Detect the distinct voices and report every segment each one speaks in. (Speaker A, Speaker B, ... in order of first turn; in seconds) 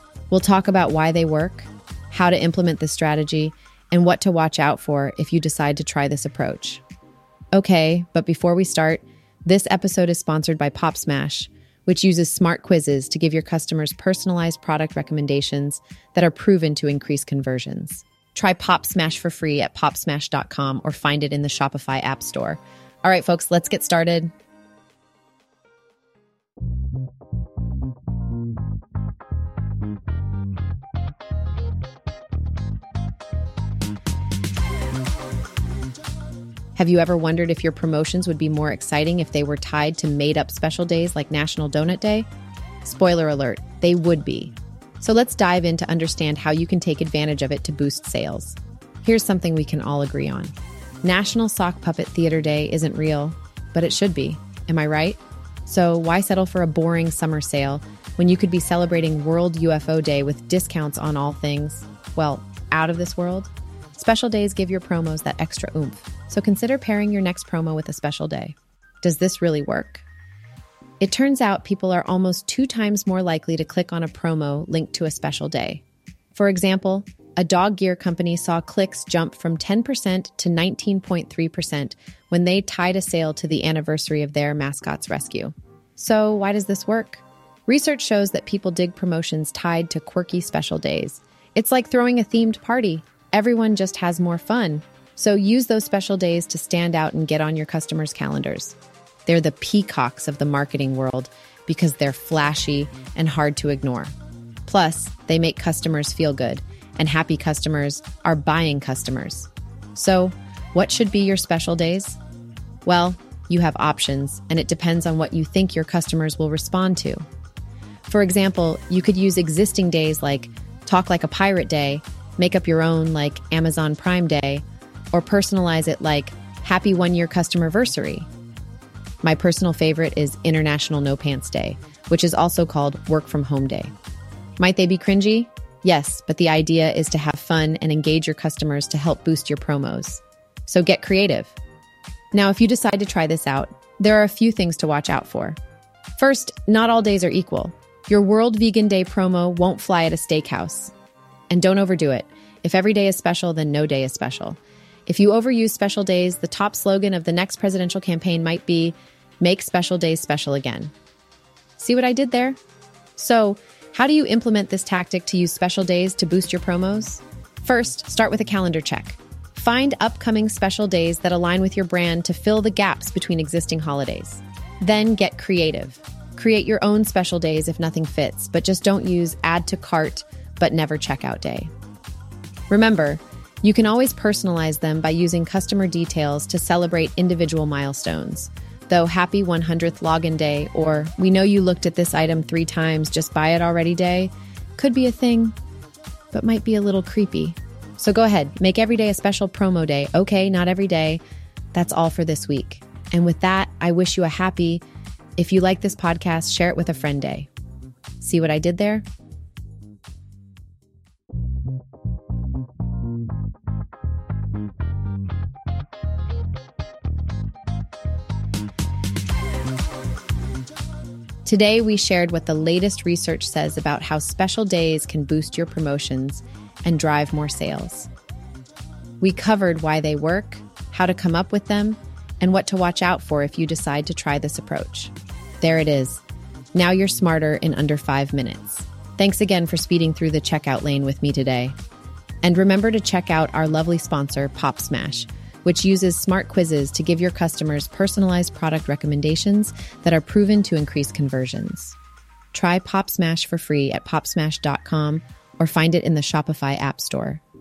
Speaker A: 0.3-6.8, 7.5-24.3, 36.8-42.3, 42.8-70.0, 71.0-104.1, 104.7-112.2, 112.8-117.2, 118.1-128.3, 129.2-133.9, 134.6-141.5, 142.3-145.6, 146.2-150.9, 151.5-160.9, 161.8-162.6, 163.2-181.7, 182.7-195.5, 196.3-201.2, 201.7-204.8, 205.4-207.5, 208.2-209.1, 221.4-228.1, 229.2-236.2, 236.7-241.8, 242.4-251.9, 252.5-257.4